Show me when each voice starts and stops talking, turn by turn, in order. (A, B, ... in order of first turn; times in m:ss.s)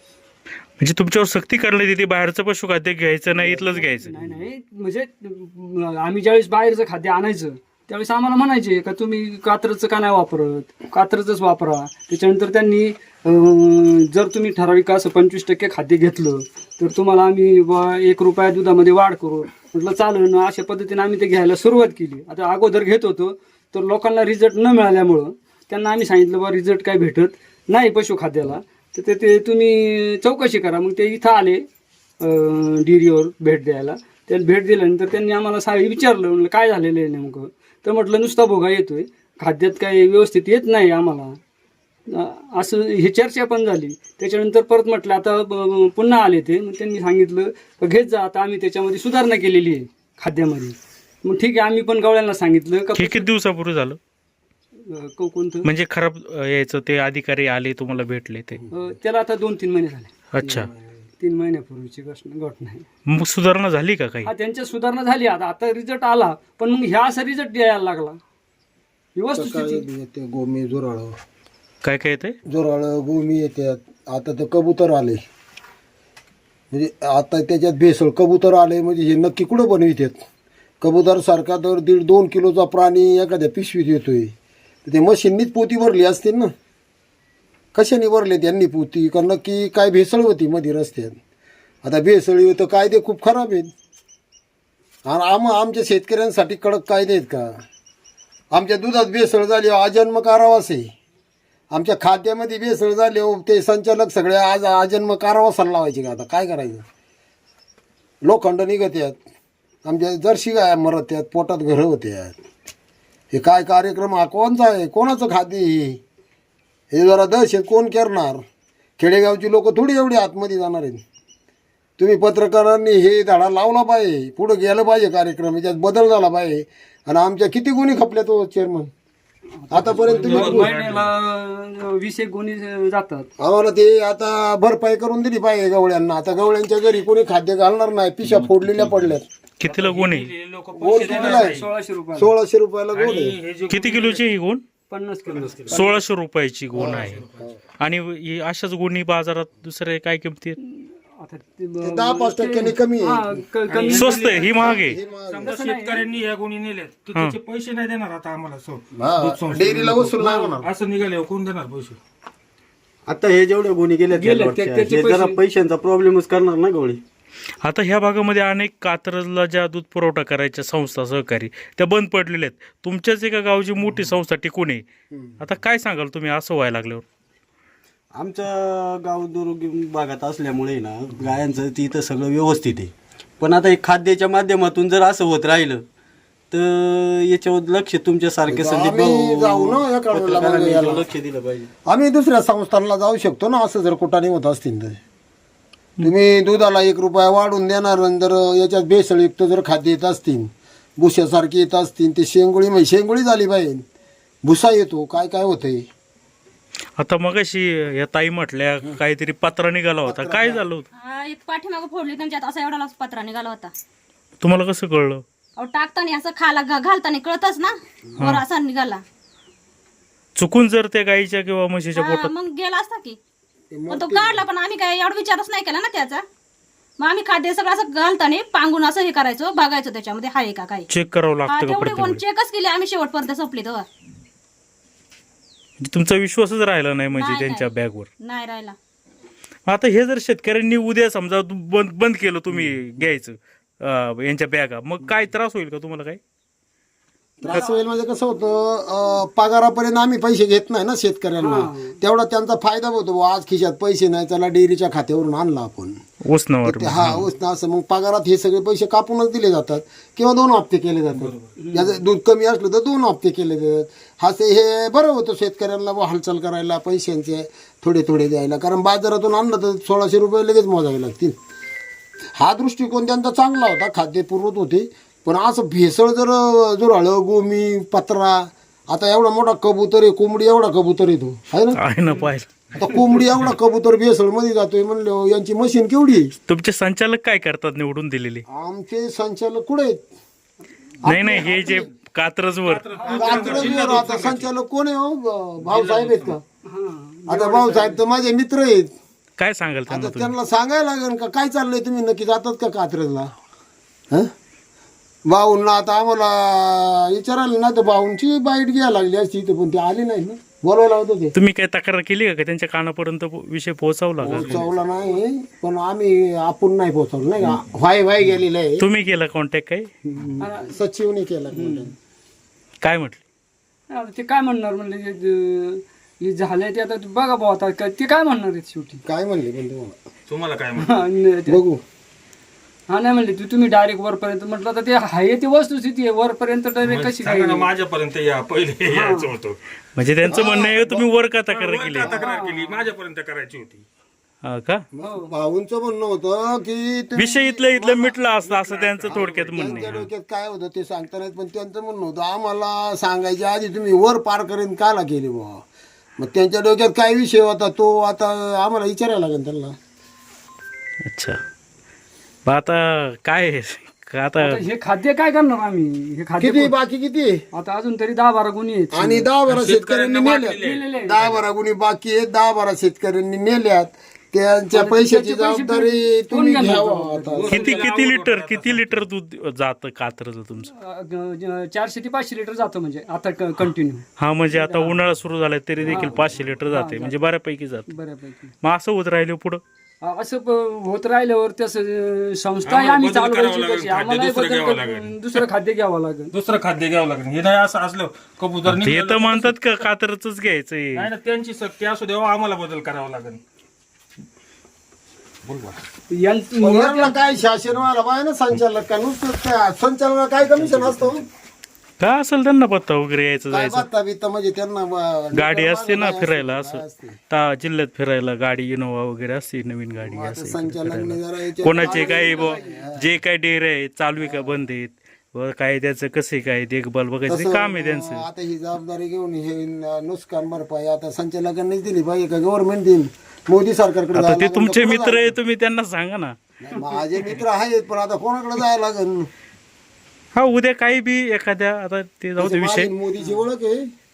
0:00.8-0:04.2 A
0:03.4-0:31.6 B
0:32.2-0:41.4 B
0:42.1-0:53.3 B
0:52.9-0:54.0 A
0:54.8-0:55.7 B
0:55.6-0:58.6 A
0:58.7-1:00.1 B
1:00.3-1:00.7 A
1:01.2-1:02.8 B
1:03.1-1:04.3 A
1:04.2-1:08.2 B
1:09.2-1:09.8 B
1:09.4-1:11.2 C
1:11.8-1:12.4 A
1:12.5-1:15.2 C
1:16.7-1:20.2 C
1:20.8-1:24.3 C
1:24.8-1:26.5 C
1:27.8-1:31.2 C
1:31.8-1:33.7 C
1:35.1-1:37.5 C
1:38.5-1:40.9 C
1:41.7-1:46.8 C
1:48.2-1:49.2 C
1:49.8-1:52.4 C
1:53.3-1:56.0 C
1:56.9-1:58.4 C
1:59.0-2:01.0 C
2:02.0-2:08.9 C
2:09.6-2:13.3 B
2:09.7-2:10.8 C
2:09.9-2:11.1 D
2:13.4-2:19.2 C
2:18.2-2:21.7 D
2:19.6-2:20.3 A
2:20.8-2:21.6 C
2:21.0-2:22.3 B
2:22.2-2:23.4 C
2:22.9-2:24.2 D
2:23.7-2:24.6 A
2:24.9-2:26.0 B
2:25.2-2:25.8 D
2:25.7-2:27.2 A
2:26.8-2:27.6 C
2:26.8-2:27.4 D
2:27.8-2:30.6 A
2:30.6-2:34.7 B
2:31.8-2:33.4 C
2:33.7-2:42.0 D
2:33.9-2:35.0 A
2:34.4-2:35.5 C
2:35.4-2:36.1 B
2:37.1-2:37.4 A
2:38.9-2:40.7 C
2:43.1-2:47.0 E
2:44.1-2:45.4 B
2:47.6-2:54.9 A
2:55.4-2:57.0 A
2:58.1-3:05.8 E
3:06.5-3:11.7 E
3:08.5-3:11.1 C
3:11.9-3:15.0 C
3:16.0-3:23.8 C
3:24.4-3:25.9 C
3:27.0-3:30.8 A
3:30.0-3:30.6 C
3:31.0-3:33.7 F
3:34.4-3:35.2 A
3:35.6-3:39.0 F
3:38.2-3:38.4 A
3:40.4-3:42.3 A
3:42.0-3:43.2 F
3:43.7-3:44.4 C
3:43.9-3:46.2 F
3:47.0-3:50.9 F
3:50.9-3:52.2 A
3:51.5-3:53.9 F
3:55.8-3:58.1 A
3:57.1-3:58.8 F
3:59.7-4:06.2 A
4:07.4-4:16.0 C
4:11.4-4:12.0 B
4:16.2-4:17.3 A
4:16.6-4:31.4 C
4:21.2-4:21.5 D
4:21.6-4:22.0 B
4:32.4-4:41.8 C
4:41.8-4:42.6 A
4:42.7-4:46.3 C
4:46.5-4:48.4 A
4:48.5-4:50.0 C
4:51.0-4:51.9 C
4:51.0-4:52.9 A
4:52.6-4:54.5 D
4:53.0-4:53.8 B
4:53.1-4:56.4 C
4:55.6-4:56.4 D
4:56.6-4:58.0 B
4:57.3-4:58.9 C
4:59.4-5:00.3 A
4:59.9-5:03.3 C
5:05.3-5:11.3 C
5:11.4-5:14.6 A
5:14.2-5:18.8 C
5:18.8-5:19.9 A
5:20.1-5:21.9 C
5:20.4-5:20.8 B
5:21.6-5:21.9 B
5:22.8-5:23.2 A
5:23.9-5:29.0 B
5:29.0-5:30.0 C
5:30.3-5:31.0 D
5:30.8-5:31.6 B
5:31.5-5:31.8 C
5:32.9-5:37.7 B
5:36.8-5:39.6 D
5:38.9-5:39.3 B
5:40.0-5:42.2 A
5:40.3-5:41.1 C
5:41.5-5:43.9 D
5:42.0-5:42.9 B
5:44.4-5:44.8 A
5:45.0-5:48.2 C
5:45.0-5:45.3 B
5:47.2-5:50.0 A
5:48.4-5:50.1 D
5:49.1-5:55.6 C
5:49.6-5:49.9 B
5:56.2-5:59.8 C
6:01.1-6:01.4 A
6:02.5-6:04.6 A
6:04.4-6:06.8 B
6:06.4-6:07.4 C
6:07.5-6:09.3 B
6:08.9-6:17.6 C
6:09.5-6:11.4 D
6:10.6-6:11.2 B
6:14.7-6:17.8 B
6:17.4-6:19.0 D
6:17.5-6:20.7 A
6:20.7-6:25.0 B
6:24.2-6:27.9 A
6:25.8-6:27.2 B
6:27.9-6:28.5 B
6:28.6-6:29.6 A
6:30.0-6:36.3 B
6:32.6-6:35.4 D
6:36.3-6:39.8 D
6:38.7-6:41.1 A
6:40.9-6:43.4 D
6:45.4-6:45.8 D
6:46.1-6:47.2 B
6:46.6-6:51.3 C
6:52.0-6:53.9 A
6:53.5-6:57.2 C
6:55.3-7:08.2 A
7:00.1-7:03.1 C
7:01.8-7:02.8 B
7:04.2-7:04.6 C
7:07.3-7:15.4 C
7:14.1-7:16.4 A
7:16.6-7:19.3 C
7:20.4-7:22.9 A
7:22.4-7:23.9 C